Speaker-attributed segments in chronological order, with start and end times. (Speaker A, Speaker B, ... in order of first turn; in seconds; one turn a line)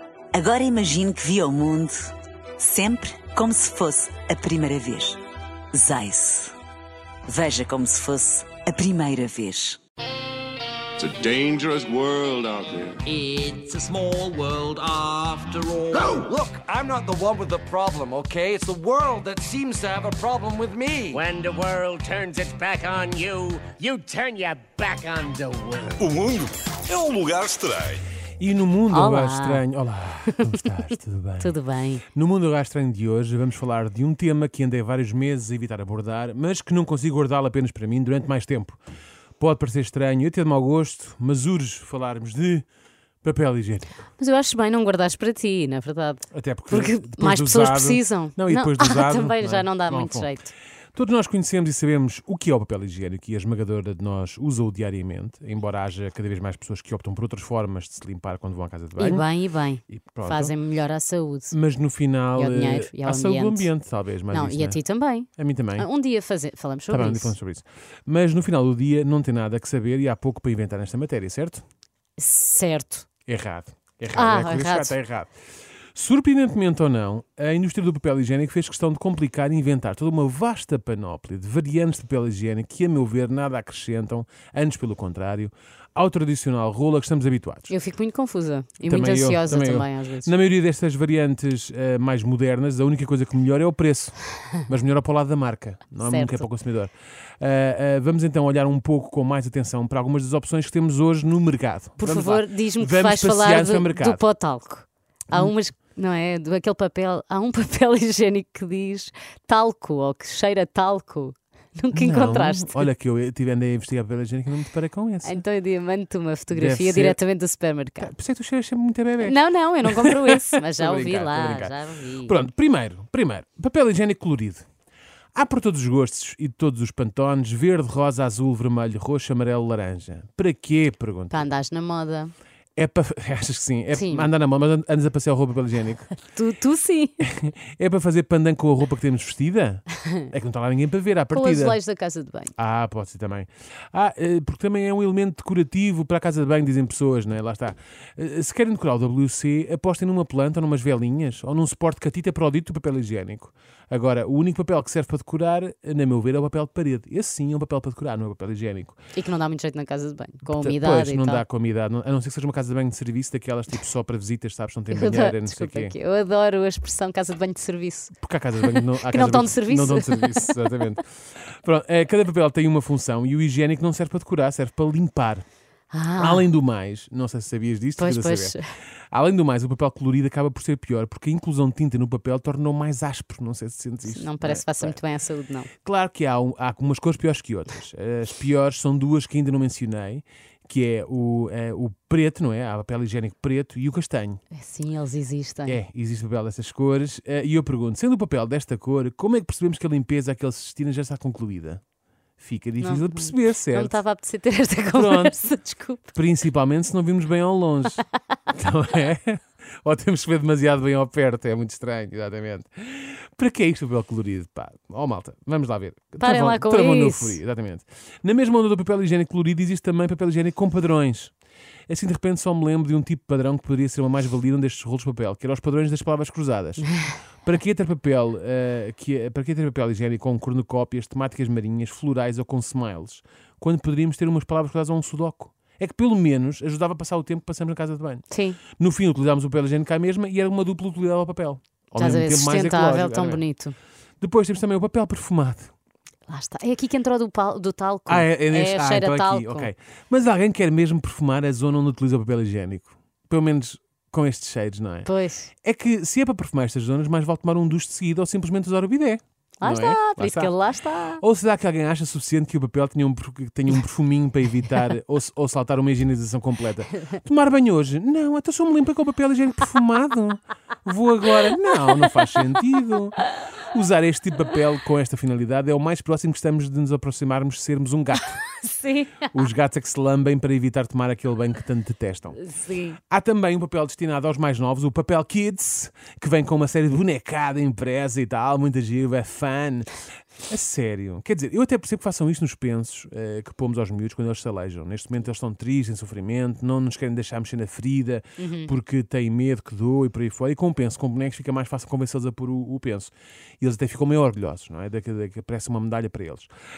Speaker A: 0.3-5.2
Speaker A: 5.7-6.5
Speaker A: 7.3-9.8
Speaker B: 11.0-13.0
Speaker C: 13.1-16.2
Speaker D: 15.9-21.2
Speaker E: 21.1-25.9
Speaker F: 26.0-28.0
Speaker G: 28.4-31.6
Speaker H: 28.9-29.7
Speaker H: 31.4-32.0
Speaker G: 32.1-38.8
Speaker G: 39.4-42.6
Speaker G: 43.2-43.9
Speaker H: 44.2-50.5
Speaker G: 46.3-50.4
Speaker G: 51.0-59.3
Speaker H: 59.0-61.5
Speaker G: 59.9-60.5
Speaker G: 61.5-65.9
Speaker H: 62.3-63.7
Speaker H: 64.3-67.3
Speaker G: 66.9-71.6
Speaker H: 72.2-73.1
Speaker G: 73.3-75.3
Speaker H: 74.1-75.0
Speaker G: 76.0-87.7
Speaker H: 87.7-90.3
Speaker G: 88.8-104.2
Speaker H: 96.0-96.5
Speaker H: 102.0-112.9
Speaker G: 111.9-115.4
Speaker H: 115.2-118.1
Speaker G: 116.5-117.2
Speaker G: 118.0-124.6
Speaker H: 119.2-122.4
Speaker G: 125.3-131.5
Speaker H: 131.3-132.3
Speaker G: 132.8-136.1
Speaker H: 133.9-134.3
Speaker H: 136.3-137.3
Speaker G: 137.2-141.8
Speaker H: 141.3-142.5
Speaker G: 142.6-159.0
Speaker H: 159.1-161.4
Speaker G: 160.4-165.9
Speaker H: 164.9-170.7
Speaker G: 168.2-175.4
Speaker H: 175.9-176.5
Speaker G: 176.2-178.6
Speaker H: 178.0-178.7
Speaker G: 179.1-185.0
Speaker H: 184.1-185.7
Speaker G: 185.8-194.4
Speaker H: 194.5-195.8
Speaker G: 195.7-201.8
Speaker G: 202.4-204.0
Speaker H: 202.8-206.1
Speaker G: 204.9-205.6
Speaker G: 206.1-221.3
Speaker H: 216.2-217.4
Speaker G: 221.9-226.9
Speaker G: 227.4-238.2
Speaker H: 238.3-238.6
Speaker G: 238.8-243.4
Speaker H: 242.0-243.8
Speaker G: 244.2-245.7
Speaker H: 246.3-249.7
Speaker G: 248.1-255.1
Speaker H: 255.1-255.5
Speaker G: 255.6-260.6
Speaker H: 259.6-261.2
Speaker G: 261.2-278.4
Speaker H: 278.6-279.3
Speaker G: 279.3-282.4
Speaker H: 282.3-283.0
Speaker G: 283.1-289.9
Speaker G: 290.5-306.5
Speaker H: 298.4-298.7